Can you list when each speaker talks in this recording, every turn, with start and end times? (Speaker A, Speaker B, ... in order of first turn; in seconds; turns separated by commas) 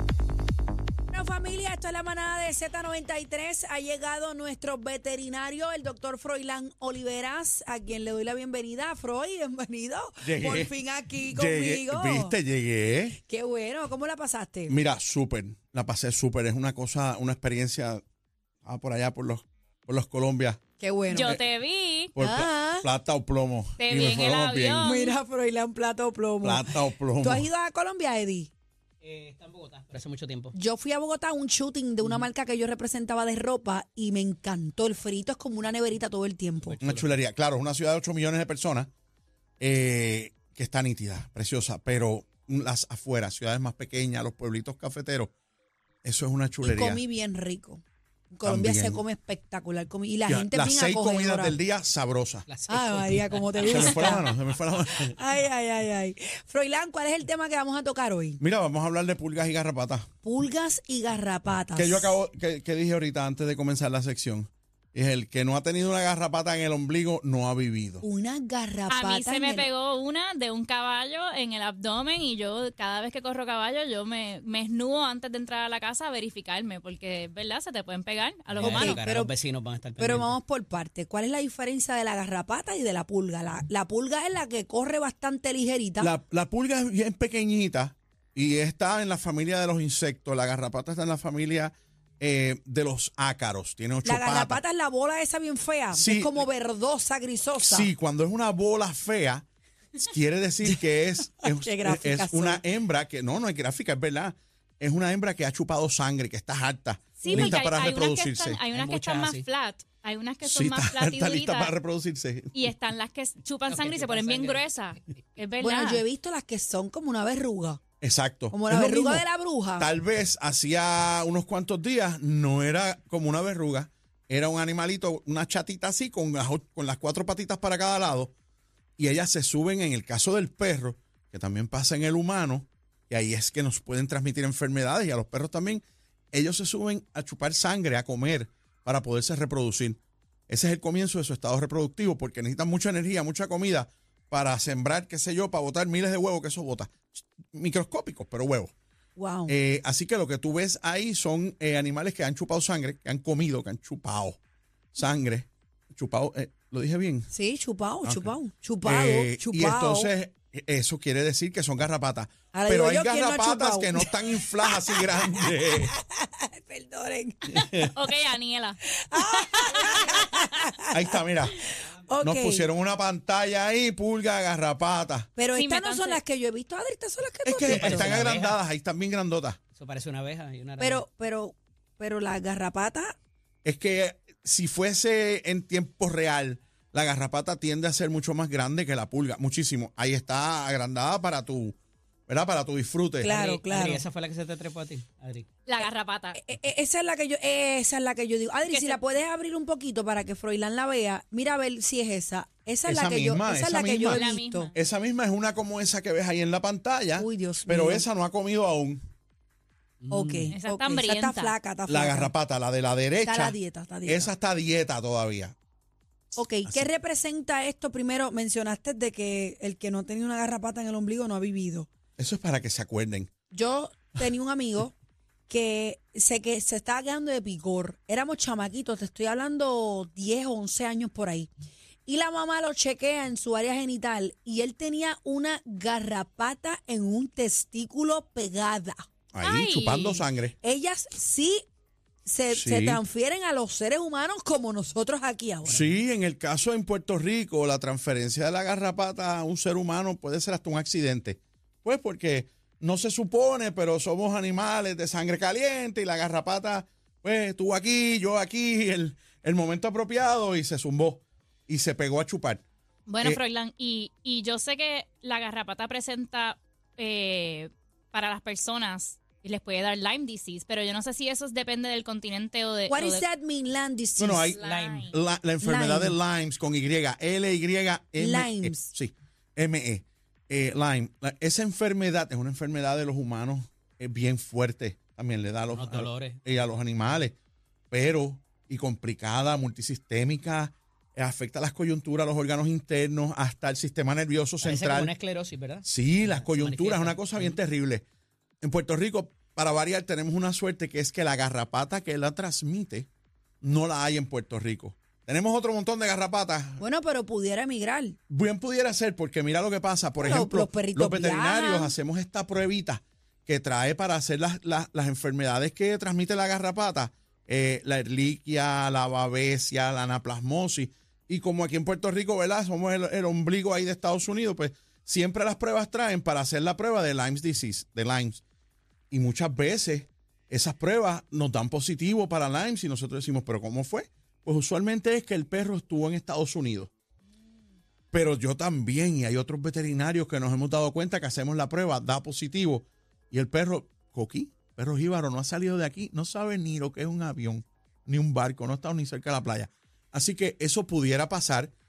Speaker A: 1.1-12.3, Speaker B: 10.2-13.2, Speaker A: 13.2-14.8, Speaker B: 14.7-18.0, Speaker B: 18.6-20.6, Speaker A: 20.8-21.3, Speaker C: 21.1-22.1, Speaker B: 22.1-24.9, Speaker A: 22.2-22.9, Speaker C: 23.8-25.2, Speaker A: 24.8-28.5, Speaker B: 26.4-27.5, Speaker D: 29.0-30.5, Speaker A: 30.5-36.8, Speaker D: 36.6-37.1, Speaker B: 36.8-38.9, Speaker B: 39.6-45.3, Speaker B: 46.0-47.0, Speaker A: 46.6-51.6, Speaker B: 48.4-49.0, Speaker B: 50.3-52.5, Speaker D: 52.5-54.3, Speaker A: 52.7-54.3, Speaker B: 53.6-55.1, Speaker A: 55.0-58.4, Speaker B: 58.4-60.0, Speaker A: 60.2-62.1, Speaker B: 61.7-68.0, Speaker A: 68.0-69.7, Speaker C: 68.9-79.0, Speaker D: 78.5-80.3, Speaker A: 78.6-79.3, Speaker A: 80.0-86.1, Speaker B: 86.0-94.6, Speaker A: 94.0-97.9, Speaker B: 95.9-96.4, Speaker B: 97.6-99.5, Speaker B: 100.0-108.6, Speaker A: 101.4-102.6, Speaker C: 107.2-111.7, Speaker A: 107.3-107.5, Speaker D: 108.7-109.5, Speaker B: 110.4-112.8, Speaker C: 112.5-116.0, Speaker D: 113.7-114.7, Speaker A: 115.6-117.8, Speaker B: 118.0-119.2, Speaker A: 118.5-119.9, Speaker B: 119.8-128.3, Speaker B: 129.0-148.7, Speaker A: 149.2-149.5, Speaker B: 149.5-154.4, Speaker B: 154.9-157.3, Speaker A: 157.3-160.1, Speaker B: 158.0-165.9, Speaker A: 162.5-167.8, Speaker B: 167.5-167.9, Speaker C: 167.9-170.5, Speaker A: 169.0-171.2, Speaker B: 170.9-171.5, Speaker A: 171.8-172.7, Speaker B: 172.2-175.3, Speaker A: 175.3-178.1, Speaker C: 175.5-176.2, Speaker B: 177.4-179.6, Speaker D: 177.7-178.6, Speaker D: 179.7-181.0, Speaker A: 180.8-183.2, Speaker B: 183.6-191.8, Speaker B: 192.3-193.3, Speaker A: 193.2-194.0, Speaker D: 193.2-195.6, Speaker C: 195.7-196.4, Speaker A: 196.3-204.7, Speaker C: 198.7-199.0, Speaker B: 202.8-204.2, Speaker C: 204.1-204.7, Speaker B: 204.7-209.0, Speaker A: 207.2-208.1, Speaker D: 210.0-210.5, Speaker A: 210.1-212.3, Speaker C: 210.5-211.6, Speaker B: 211.9-215.5, Speaker A: 213.2-214.3, Speaker A: 216.3-221.9, Speaker B: 222.2-223.3, Speaker A: 223.5-224.9, Speaker A: 225.5-231.5, Speaker A: 232.1-239.0, Speaker B: 239.3-240.6, Speaker C: 239.4-240.2, Speaker A: 240.6-241.6, Speaker A: 242.2-245.9, Speaker B: 242.5-243.0, Speaker B: 245.6-262.6, Speaker C: 263.1-273.2, Speaker A: 272.9-274.5, Speaker B: 274.2-287.4, Speaker C: 274.5-275.1, Speaker D: 274.6-275.1, Speaker A: 275.6-276.2, Speaker A: 278.2-278.9, Speaker D: 285.7-286.4, Speaker B: 287.9-295.1, Speaker D: 294.6-297.6, Speaker B: 295.8-298.0, Speaker B: 298.6-303.1, Speaker B: 303.6-306.8, Speaker A: 306.8-308.2, Speaker B: 308.3-328.4, Speaker A: 310.2-311.9, Speaker B: 329.1-336.9, Speaker B: 338.1-351.7